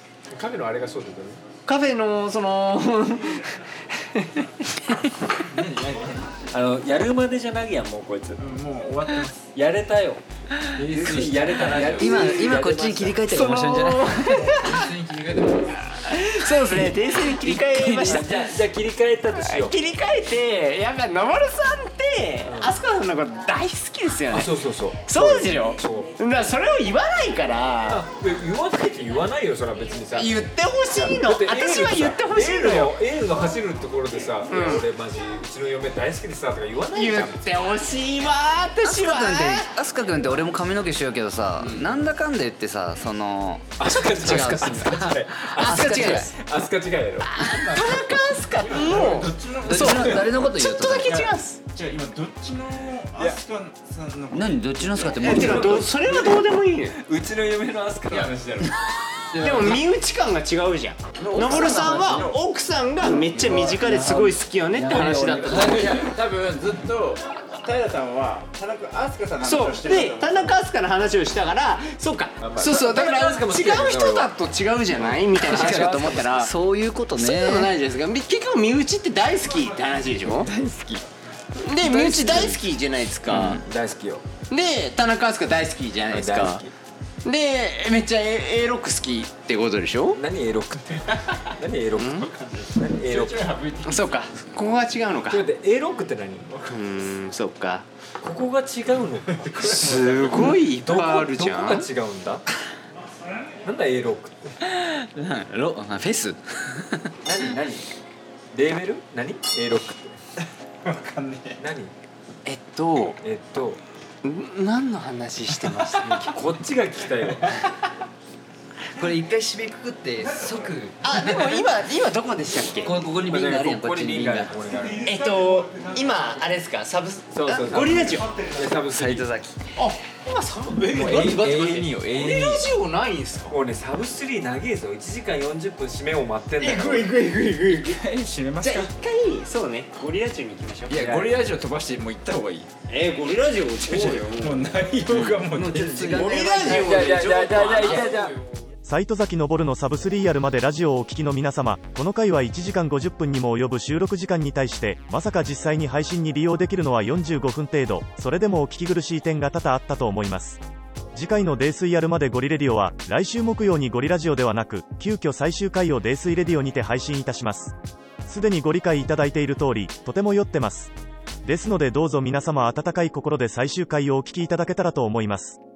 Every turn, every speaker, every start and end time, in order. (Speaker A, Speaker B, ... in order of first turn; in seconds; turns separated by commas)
Speaker A: 0.3-1.4, Speaker B: 1.6-5.1, Speaker C: 5.4-6.4, Speaker A: 6.5-8.5, Speaker C: 8.4-9.5, Speaker A: 9.5-13.2, Speaker C: 10.8-12.2, Speaker D: 11.7-14.2, Speaker B: 11.9-12.4, Speaker B: 13.2-14.9, Speaker C: 14.2-15.9, Speaker B: 15.9-18.5, Speaker D: 17.4-18.3, Speaker A: 17.8-19.7, Speaker B: 19.4-24.5, Speaker A: 22.4-22.8, Speaker A: 24.3-26.2, Speaker B: 25.1-28.0, Speaker A: 27.9-30.4, Speaker B: 30.1-32.9, Speaker A: 30.9-37.4, Speaker B: 34.5-34.8, Speaker B: 36.9-39.7, Speaker D: 38.8-43.6, Speaker B: 41.6-41.9, Speaker A: 43.8-47.3, Speaker B: 43.8-46.3, Speaker D: 45.6-46.3, Speaker B: 47.3-51.6, Speaker C: 47.4-50.4, Speaker D: 49.6-51.3, Speaker C: 51.1-56.0, Speaker D: 54.3-55.9, Speaker B: 55.2-57.0, Speaker A: 57.0-58.7, Speaker C: 58.1-58.7, Speaker D: 59.3-59.8, Speaker B: 59.4-65.9, Speaker C: 61.2-62.3, Speaker D: 61.3-62.3, Speaker D: 63.3-66.1, Speaker C: 65.5-70.6, Speaker B: 69.4-76.5, Speaker A: 72.4-74.3, Speaker A: 74.9-76.2, Speaker D: 75.4-77.7, Speaker B: 77.2-80.5, Speaker D: 80.2-81.0, Speaker B: 81.6-83.6, Speaker D: 81.8-82.6, Speaker D: 83.3-83.6, Speaker A: 83.3-84.2, Speaker B: 84.5-86.6, Speaker A: 86.1-86.7, Speaker B: 87.2-90.2, Speaker A: 90.2-90.8, Speaker C: 90.8-91.5, Speaker A: 91.6-93.4, Speaker B: 92.0-92.3, Speaker C: 92.2-94.2, Speaker B: 93.8-95.4, Speaker A: 95.3-96.6, Speaker C: 96.5-96.8, Speaker B: 96.7-97.9, Speaker A: 98.2-102.4, Speaker C: 99.4-100.3, Speaker B: 99.7-101.9, Speaker A: 103.6-104.6, Speaker D: 104.8-107.1, Speaker A: 107.2-107.9, Speaker A: 108.5-110.2, Speaker C: 110.4-111.6, Speaker A: 111.6-111.9, Speaker B: 112.5-113.2, Speaker A: 113.2-113.8, Speaker B: 114.2-116.3, Speaker C: 115.6-116.2, Speaker A: 116.3-117.6, Speaker D: 119.0-121.7, Speaker B: 121.0-122.9, Speaker D: 122.8-124.5, Speaker A: 123.2-125.1, Speaker B: 125.0-128.3, Speaker A: 127.3-129.3, Speaker D: 128.9-129.6, Speaker B: 129.8-133.6, Speaker C: 130.9-132.7, Speaker A: 133.5-137.1, Speaker C: 136.6-138.9, Speaker B: 136.7-137.9, Speaker B: 138.6-141.0, Speaker C: 140.9-142.7, Speaker A: 140.9-141.3, Speaker B: 142.9-144.7, Speaker C: 143.8-146.5, Speaker D: 145.4-148.1, Speaker B: 146.1-148.1, Speaker A: 146.6-148.3, Speaker E: 148.8-160.6, Speaker E: 161.1-170.9, Speaker E: 171.4-175.6